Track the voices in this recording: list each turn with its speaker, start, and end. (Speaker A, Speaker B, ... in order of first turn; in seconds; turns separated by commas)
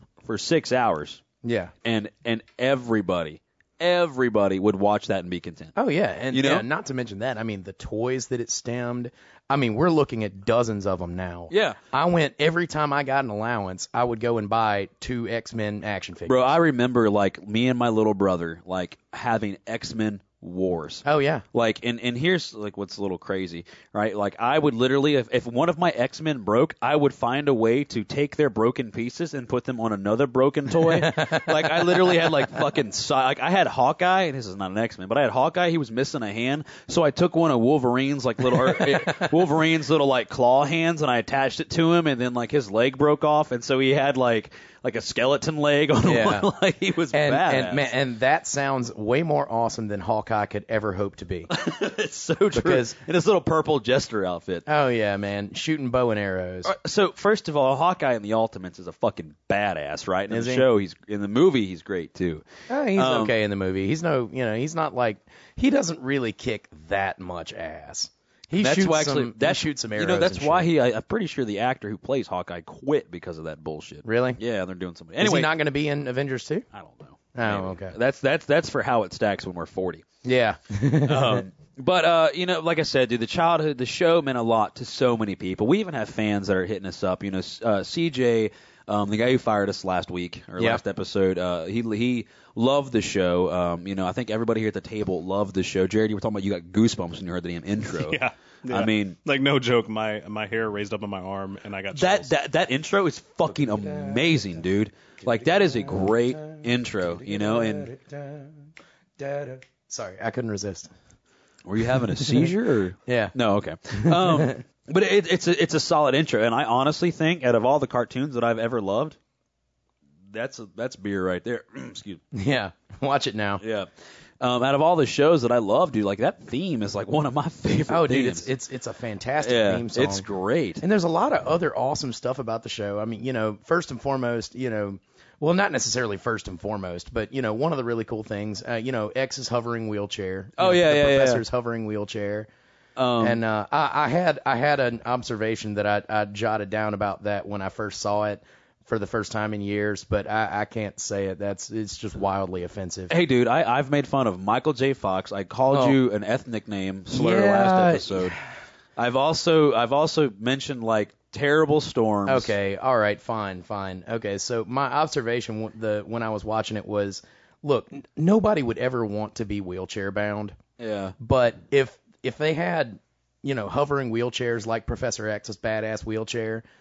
Speaker A: 0.2-1.2, Speaker B: 1.4-1.7, Speaker A: 1.8-5.7, Speaker B: 5.8-16.4, Speaker A: 6.3-6.7, Speaker A: 11.5-11.8, Speaker A: 16.3-47.9, Speaker B: 21.0-21.4, Speaker B: 30.8-32.3, Speaker B: 38.4-39.3, Speaker B: 46.0-46.5, Speaker B: 47.1-51.5, Speaker A: 51.5-54.6, Speaker B: 52.5-53.0, Speaker B: 54.6-56.7, Speaker A: 56.6-63.3, Speaker B: 60.3-60.7, Speaker B: 62.7-70.7, Speaker A: 68.6-75.5, Speaker B: 74.0-74.4, Speaker B: 75.2-76.7, Speaker A: 76.7-80.0, Speaker B: 77.3-77.9, Speaker B: 80.2-81.4, Speaker A: 81.0-99.2, Speaker B: 90.6-90.8, Speaker C: 97.9-102.3, Speaker A: 101.9-107.9, Speaker B: 103.5-104.5, Speaker B: 105.2-110.9, Speaker A: 111.7-119.2, Speaker B: 112.2-112.5, Speaker B: 113.0-113.3, Speaker B: 113.9-114.6, Speaker A: 120.3-122.2, Speaker B: 122.3-123.6, Speaker A: 123.6-123.9, Speaker A: 124.4-128.5, Speaker B: 127.9-130.2, Speaker A: 129.4-130.8, Speaker B: 130.8-142.5, Speaker A: 140.6-141.4, Speaker A: 143.0-143.4, Speaker B: 143.2-153.1, Speaker A: 153.1-158.4, Speaker B: 155.7-156.0, Speaker B: 157.1-158.4, Speaker A: 159.0-162.5, Speaker B: 162.2-170.6, Speaker A: 170.8-171.1, Speaker B: 171.2-176.6